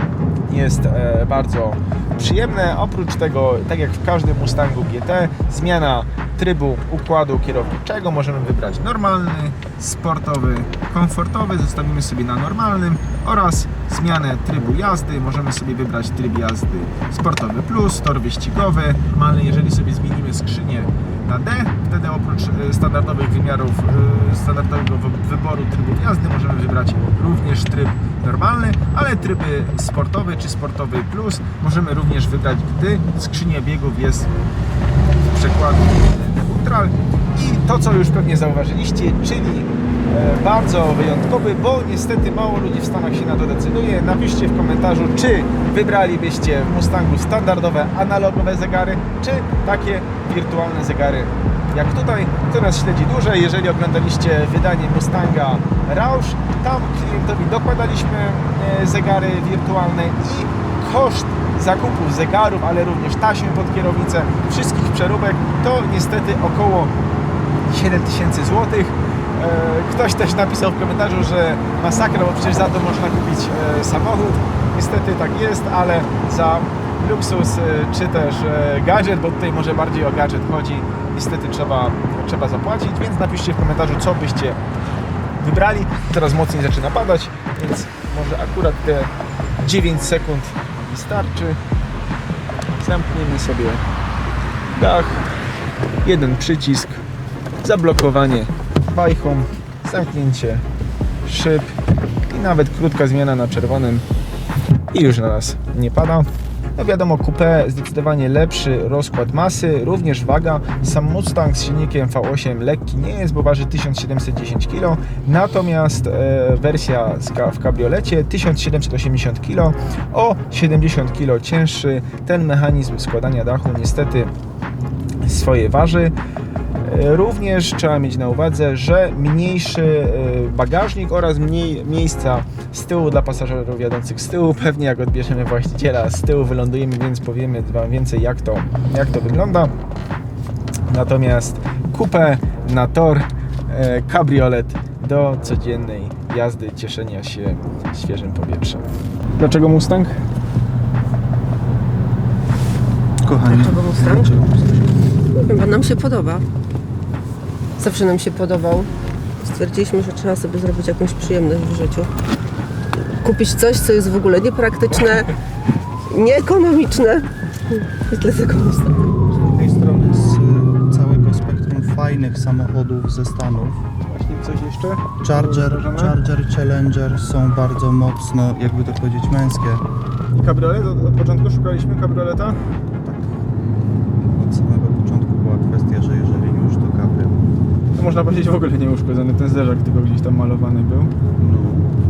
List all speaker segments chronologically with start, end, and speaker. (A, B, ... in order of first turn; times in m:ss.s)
0:00.4-0:34.3 A
0:35.2-1:06.9 A
1:07.6-1:24.6 A
1:25.4-1:31.6 A
1:32.8-1:33.8 A
1:34.7-1:35.2 A
1:36.0-1:37.0 A
1:37.6-1:40.6 A
1:41.2-1:41.7 A
1:42.3-1:44.0 A
1:44.9-2:04.3 A
2:05.2-2:06.1 A
2:06.8-2:19.7 A
2:20.9-2:28.8 A
2:29.4-2:30.2 A
2:33.2-2:34.9 B
2:33.4-2:34.3 C
2:35.3-2:36.4 C
2:37.8-2:38.9 C
2:39.4-2:42.1 C
2:43.2-2:45.3 C
2:46.1-2:49.2 C
2:49.2-2:53.8 B
2:54.0-2:56.2 A
2:55.2-2:59.8 B
3:00.3-3:02.6 A
3:03.0-3:03.4 B
3:04.2-3:07.4 B
3:07.9-3:11.1 A
3:11.4-3:11.9 B